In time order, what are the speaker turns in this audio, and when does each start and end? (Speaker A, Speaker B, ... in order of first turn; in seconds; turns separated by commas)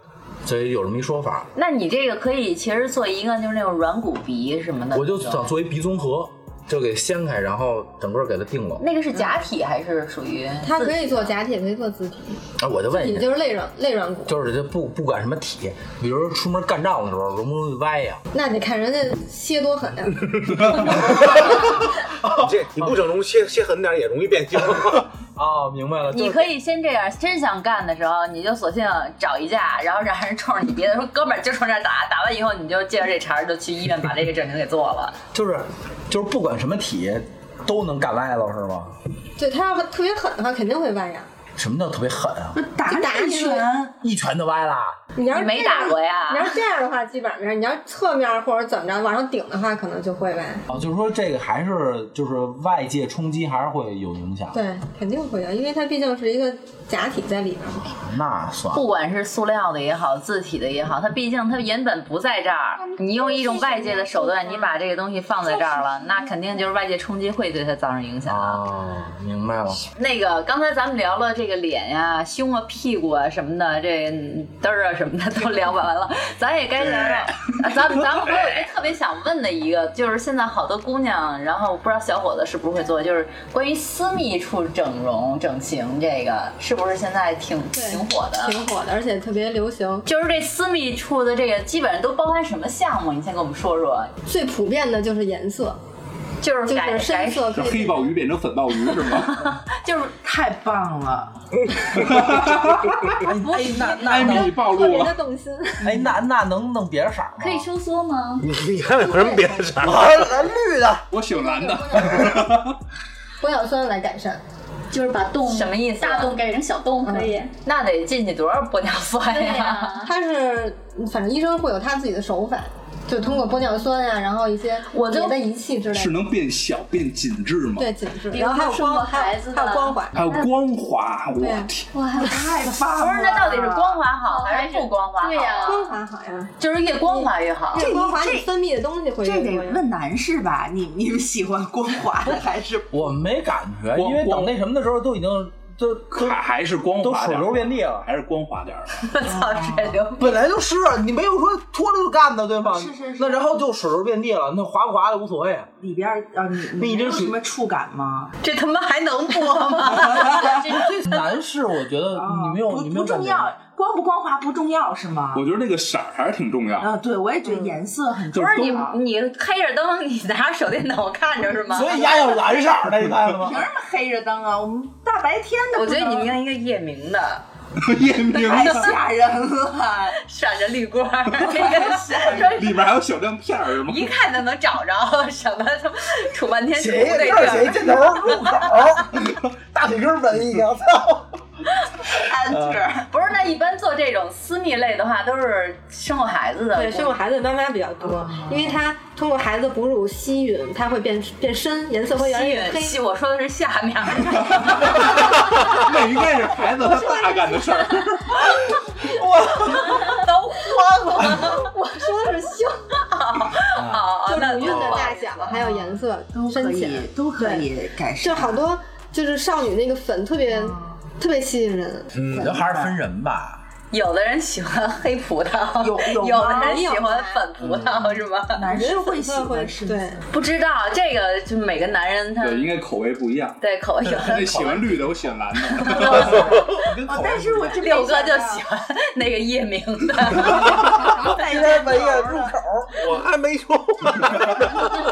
Speaker A: 0.4-1.5, Speaker B: 1.5-5.5, Speaker A: 4.9-8.8, Speaker B: 8.8-11.4, Speaker C: 10.6-14.4, Speaker A: 12.6-13.3, Speaker A: 14.2-18.2, Speaker C: 18.3-21.0, Speaker A: 20.8-21.6, Speaker D: 21.0-21.6, Speaker A: 22.1-23.0, Speaker D: 22.2-25.1, Speaker A: 24.6-26.5, Speaker B: 26.1-35.2, Speaker A: 35.3-39.0, Speaker C: 39.4-41.3, Speaker A: 41.6-42.6, Speaker E: 42.5-43.9, Speaker C: 42.9-43.7, Speaker A: 44.0-45.0, Speaker C: 45.1-50.6, Speaker B: 45.3-46.6, Speaker A: 50.7-54.6, Speaker C: 54.5-57.9, Speaker A: 57.8-58.8, Speaker B: 58.7-68.6, Speaker F: 63.0-64.8, Speaker A: 68.2-69.8, Speaker B: 69.9-88.6, Speaker C: 87.7-90.0, Speaker B: 90.0-94.1, Speaker C: 94.2-95.8, Speaker B: 96.4-97.6, Speaker C: 96.6-98.2, Speaker G: 97.5-99.5, Speaker B: 98.9-100.1, Speaker E: 100.2-101.3, Speaker G: 101.9-103.3, Speaker A: 103.2-104.5, Speaker G: 103.9-105.2, Speaker C: 104.2-106.0, Speaker A: 105.8-107.7, Speaker F: 107.4-108.5, Speaker D: 108.4-110.2, Speaker F: 109.1-109.4, Speaker A: 109.8-111.1, Speaker G: 111.1-112.8, Speaker C: 111.3-112.6, Speaker C: 113.4-114.4, Speaker F: 114.9-117.5, Speaker B: 115.4-116.3, Speaker C: 117.0-117.4, Speaker B: 117.6-120.0, Speaker F: 119.3-120.1, Speaker C: 120.0-126.2, Speaker B: 124.9-125.4, Speaker G: 125.9-127.9, Speaker C: 127.7-130.2, Speaker F: 128.3-130.0, Speaker G: 130.1-131.9, Speaker C: 131.4-131.7, Speaker F: 131.9-132.6, Speaker E: 132.2-133.8, Speaker B: 132.9-135.9, Speaker F: 133.5-135.9, Speaker C: 135.6-139.8, Speaker B: 136.6-137.9, Speaker E: 137.8-138.5, Speaker E: 139.2-143.1, Speaker A: 142.9-146.4, Speaker G: 143.9-144.5, Speaker G: 146.1-149.1, Speaker A: 147.0-148.1, Speaker B: 149.0-150.3, Speaker E: 149.2-150.0, Speaker A: 150.2-155.7, Speaker E: 152.6-153.5, Speaker E: 155.8-158.3, Speaker A: 156.8-157.3, Speaker B: 158.4-161.2, Speaker A: 160.5-163.5, Speaker E: 162.1-165.4, Speaker G: 165.3-166.9, Speaker E: 166.8-169.0, Speaker B: 168.3-171.9, Speaker G: 168.3-168.8, Speaker A: 171.7-173.6, Speaker E: 173.4-176.3, Speaker B: 175.7-177.4, Speaker G: 177.8-178.9, Speaker E: 178.3-180.2, Speaker B: 178.4-178.9, Speaker B: 180.2-182.8, Speaker E: 181.4-182.8, Speaker G: 182.3-184.1, Speaker B: 183.9-188.1, Speaker A: 186.8-191.3, Speaker E: 192.1-193.1, Speaker A: 192.5-192.8, Speaker B: 193.1-197.2, Speaker C: 196.7-203.0, Speaker E: 198.0-198.8, Speaker B: 202.1-205.1, Speaker G: 204.6-208.7, Speaker A: 209.0-211.2, Speaker B: 209.7-211.7, Speaker C: 211.2-212.8, Speaker B: 213.0-215.7, Speaker A: 213.7-214.1, Speaker C: 214.2-217.7, Speaker D: 214.6-215.1, Speaker E: 216.3-218.7, Speaker C: 218.2-222.1, Speaker E: 220.5-221.0, Speaker D: 222.2-222.5, Speaker E: 222.3-223.0, Speaker A: 222.3-223.6, Speaker B: 223.9-228.6, Speaker E: 225.8-226.9, Speaker C: 226.4-227.5, Speaker A: 227.6-228.2, Speaker E: 228.5-230.3, Speaker C: 228.7-230.2, Speaker B: 230.3-232.7, Speaker G: 232.4-236.5, Speaker B: 233.6-234.9, Speaker B: 235.8-236.7, Speaker A: 236.0-237.8, Speaker E: 236.1-238.6, Speaker B: 237.7-241.3, Speaker A: 240.4-242.9, Speaker E: 241.0-242.5, Speaker D: 242.9-244.9